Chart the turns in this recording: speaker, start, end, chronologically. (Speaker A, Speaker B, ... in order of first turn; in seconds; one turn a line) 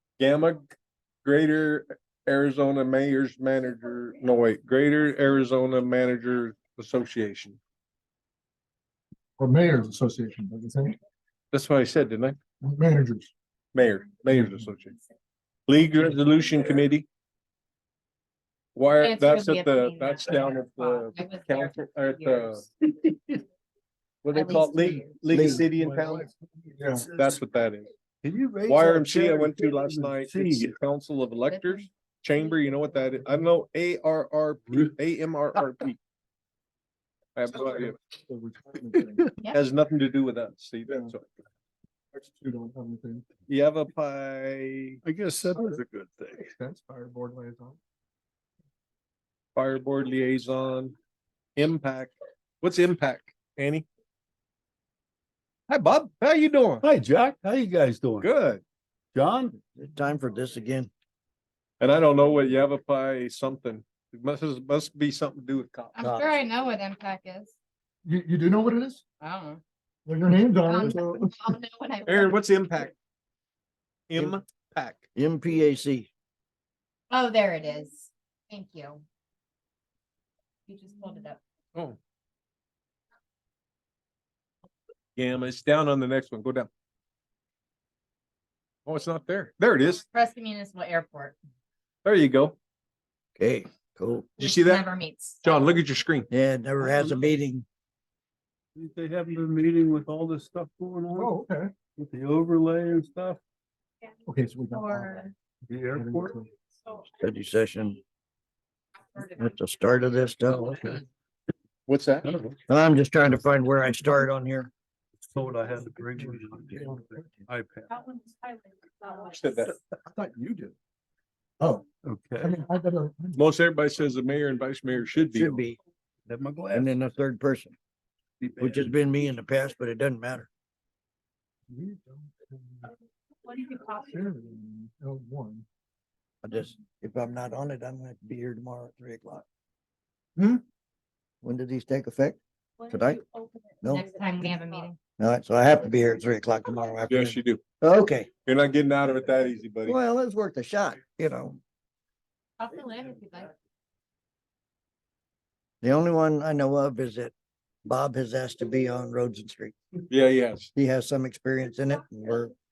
Speaker A: 0.2-0.7
Speaker A: 1.2-7.6
Speaker B: 9.4-11.0
Speaker A: 11.5-12.4
Speaker B: 12.6-13.3
Speaker A: 13.7-15.0
Speaker B: 14.3-14.7
Speaker A: 15.7-17.1
Speaker A: 18.7-22.6
Speaker C: 19.0-22.6
Speaker A: 24.2-26.3
Speaker C: 24.3-25.1
Speaker D: 25.3-25.6
Speaker B: 25.8-27.1
Speaker E: 26.8-27.4
Speaker A: 27.1-27.9
Speaker E: 28.2-30.8
Speaker A: 28.6-36.0
Speaker C: 31.5-31.9
Speaker A: 37.4-38.0
Speaker B: 37.5-39.2
Speaker A: 39.5-41.3
Speaker B: 40.9-41.1
Speaker B: 42.1-43.2
Speaker A: 43.5-45.0
Speaker E: 45.0-46.5
Speaker B: 45.5-45.8
Speaker B: 46.3-47.8
Speaker A: 49.5-50.9
Speaker A: 51.5-53.9
Speaker A: 55.7-56.9
Speaker E: 56.8-58.3
Speaker A: 58.2-58.6
Speaker E: 59.1-59.6
Speaker D: 59.8-60.9
Speaker A: 61.8-65.9
Speaker C: 65.9-67.5
Speaker D: 66.0-66.4
Speaker B: 68.0-69.0
Speaker C: 69.2-69.6
Speaker B: 70.0-71.2
Speaker C: 70.6-72.8
Speaker D: 70.8-71.3
Speaker A: 72.0-73.0
Speaker A: 74.1-75.1
Speaker D: 75.2-76.1
Speaker C: 77.1-79.0
Speaker C: 80.7-81.4
Speaker A: 85.2-86.7
Speaker A: 88.8-90.0
Speaker C: 89.9-91.4
Speaker A: 92.0-92.6
Speaker D: 93.4-94.3
Speaker A: 94.4-94.9
Speaker C: 94.4-95.5
Speaker A: 95.4-96.3
Speaker D: 96.3-97.6
Speaker E: 96.8-97.3
Speaker E: 98.7-103.4
Speaker B: 101.1-101.7
Speaker B: 104.2-106.5
Speaker E: 105.7-106.4
Speaker D: 107.0-108.0
Speaker D: 109.2-110.9
Speaker B: 110.7-111.0
Speaker A: 111.9-112.3
Speaker E: 112.2-112.6
Speaker D: 112.7-114.7
Speaker E: 115.2-117.9
Speaker B: 115.8-117.4
Speaker A: 119.0-119.8
Speaker B: 120.0-120.7
Speaker E: 122.0-122.6
Speaker B: 122.4-123.4
Speaker A: 123.3-125.6
Speaker D: 125.3-125.8
Speaker E: 126.2-127.0
Speaker D: 126.7-127.8
Speaker E: 128.4-128.9
Speaker D: 128.6-130.5
Speaker B: 131.7-132.9
Speaker B: 133.8-135.6
Speaker D: 136.4-139.4
Speaker D: 141.4-142.4
Speaker D: 142.9-143.2
Speaker D: 143.8-144.5
Speaker C: 143.8-145.0
Speaker D: 145.2-148.3
Speaker A: 147.1-147.6
Speaker A: 148.4-150.0
Speaker D: 149.8-151.6
Speaker C: 152.6-153.5
Speaker D: 155.8-157.3
Speaker D: 157.8-159.8
Speaker A: 160.1-160.7
Speaker D: 160.7-162.5